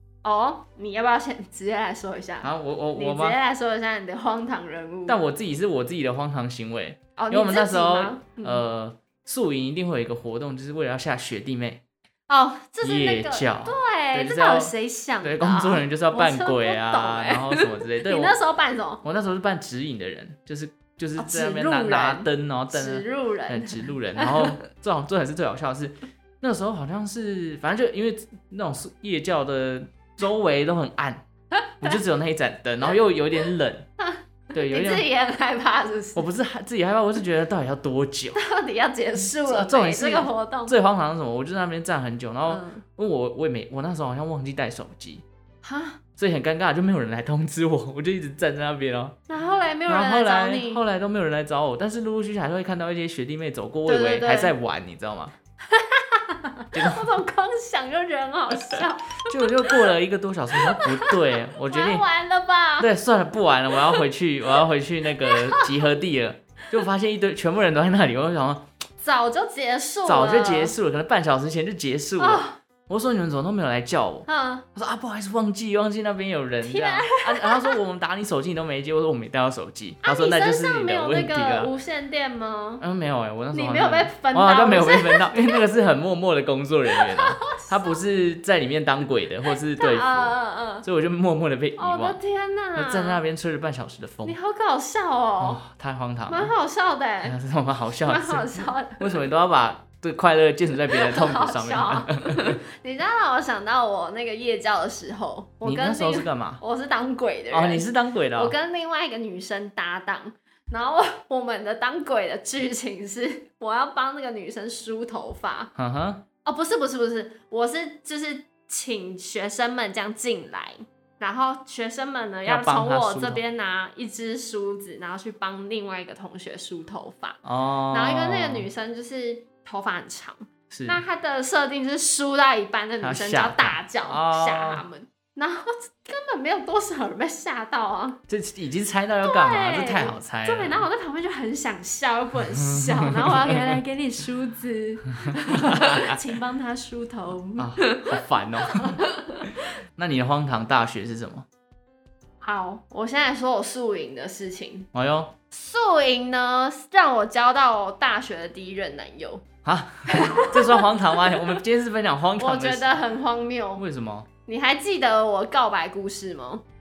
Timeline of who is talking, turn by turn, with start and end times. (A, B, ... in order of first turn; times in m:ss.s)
0:00.2-0:05.2 A
0:02.4-0:03.4 B
0:05.1-0:11.8 B
0:07.2-0:08.6 A
0:12.3-0:19.0 A
0:12.8-0:18.4 B
0:19.0-0:31.3 B
0:21.2-0:24.6 A
0:31.8-0:33.9 B
0:34.0-0:36.3 A
0:34.5-0:35.1 B
0:36.2-0:38.4 B
0:38.4-0:40.7 A
0:39.4-0:45.2 B
0:42.5-0:42.8 A
0:45.6-0:46.0 A
0:46.2-0:49.2 B
0:49.3-0:50.8 A
0:49.9-0:55.4 B
0:53.9-0:54.6 A
0:55.7-0:59.8 A
0:56.7-0:57.1 B
0:59.2-1:02.0 B
1:00.5-1:02.9 A
1:02.8-1:08.7 B
1:05.3-1:05.7 A
1:09.0-1:10.8 A
1:10.0-1:21.7 B
1:12.2-1:12.6 A
1:14.3-1:14.7 A
1:16.6-1:17.8 A
1:20.0-1:22.8 A
1:22.8-1:32.2 B
1:23.5-1:25.6 A
1:26.9-1:27.9 A
1:29.8-1:30.8 A
1:31.8-1:33.2 A
1:32.8-1:34.4 B
1:34.2-1:35.6 A
1:35.4-1:36.5 B
1:36.3-1:37.4 A
1:37.2-1:42.6 B
1:38.0-1:39.2 A
1:40.9-1:55.7 A
1:45.6-1:46.6 B
1:47.5-1:48.6 B
1:55.8-1:56.2 B
1:56.4-2:18.2 A
2:02.5-2:03.4 B
2:07.4-2:08.7 B
2:10.7-2:11.0 B
2:13.0-2:14.8 B
2:18.3-2:20.8 B
2:19.2-2:29.6 A
2:22.5-2:23.8 B
2:25.3-2:26.2 B
2:27.6-2:31.5 B
2:32.4-2:34.9 A
2:34.9-2:35.4 B
2:35.5-2:39.4 A
2:39.6-2:43.0 B
2:40.1-2:41.6 A
2:42.4-2:43.8 A
2:43.8-2:44.3 B
2:44.5-2:46.6 A